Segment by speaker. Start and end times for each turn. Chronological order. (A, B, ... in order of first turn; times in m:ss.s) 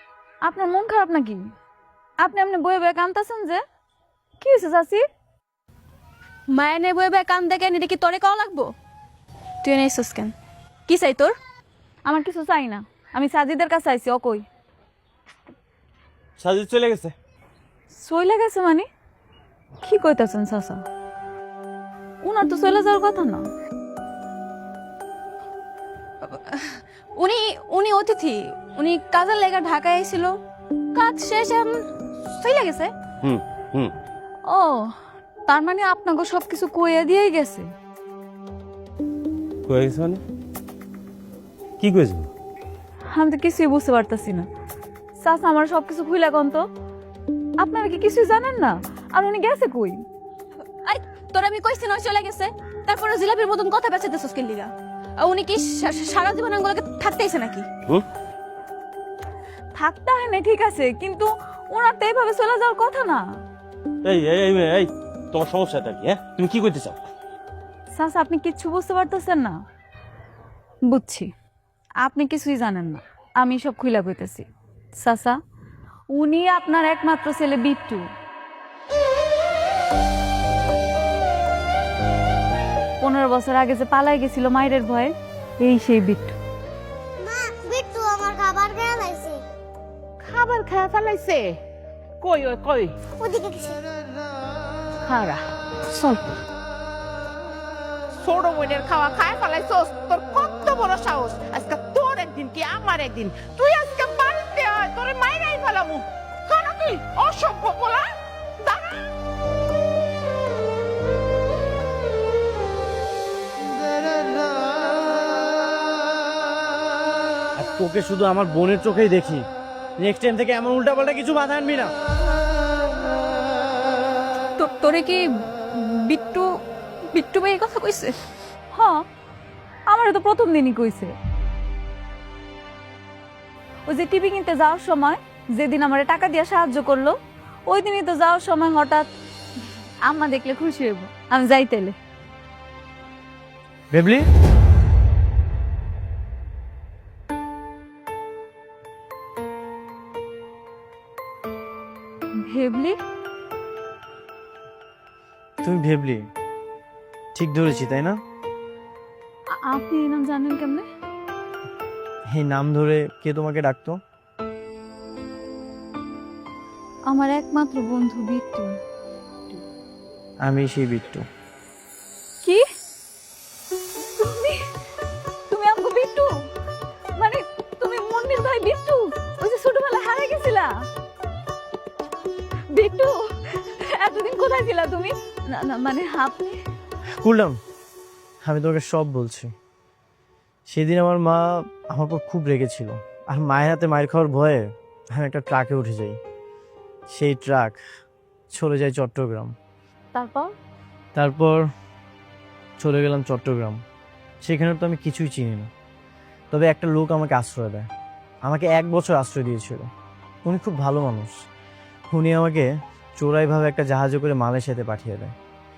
0:00.4-0:01.4 A
0:02.2-0:03.6 A
0:04.4-0:05.0 A
0:06.5-0:08.7 B
0:09.6-0:10.3 B
0:10.9-0:11.3 B
0:12.0-0:14.4 A
0:16.4-0:17.1 C
0:17.9-0:18.8 A
0:19.8-0:20.8 A
0:22.2-0:23.4 A
0:26.2-0:30.4 B
0:30.9-0:32.9 B
0:33.2-0:33.9 C
0:34.4-0:34.9 A
0:35.5-0:37.7 A
0:39.7-0:40.2 C
0:41.8-0:42.3 C
0:43.1-0:44.5 A
0:45.2-0:46.7 A
0:47.6-0:50.0 A
0:50.8-0:57.7 B
0:59.8-1:03.2 A
1:04.0-1:07.0 C
1:07.9-1:09.6 A
1:10.9-1:11.3 A
1:12.0-1:14.4 A
1:15.0-1:15.4 A
1:16.1-1:18.0 A
1:23.0-1:26.4 A
1:27.2-1:29.4 D
1:30.2-1:31.6 E
1:32.2-1:32.9 E
1:33.1-1:33.8 D
1:35.0-1:36.2 E
1:38.2-1:48.1 E
1:57.6-1:59.4 F
2:00.0-2:01.9 F
2:04.6-2:05.2 B
2:05.8-2:06.5 B
2:07.1-2:08.2 B
2:08.7-2:09.0 A
2:09.9-2:11.1 A
2:13.9-2:17.2 A
2:17.7-2:19.1 A
2:20.0-2:21.9 A
2:23.9-2:24.3 F
2:32.4-2:33.0 A
2:35.6-2:36.2 F
2:37.3-2:38.2 F
2:39.5-2:40.8 A
2:42.3-2:44.0 F
2:47.1-2:48.8 A
2:50.4-2:51.2 F
2:54.2-2:54.6 A
2:55.5-2:56.3 A
2:57.2-3:00.7 A
3:02.7-3:06.6 A
3:07.2-3:07.6 F
3:08.4-3:09.5 F
3:10.7-3:16.2 F
3:17.1-3:17.8 F
3:18.5-3:19.5 F
3:20.1-3:20.5 A
3:21.1-3:21.6 F
3:22.8-3:23.8 F
3:24.4-3:25.7 F
3:26.5-3:27.9 F
3:28.4-3:29.9 F
3:30.4-3:31.3 F
3:32.1-3:35.3 F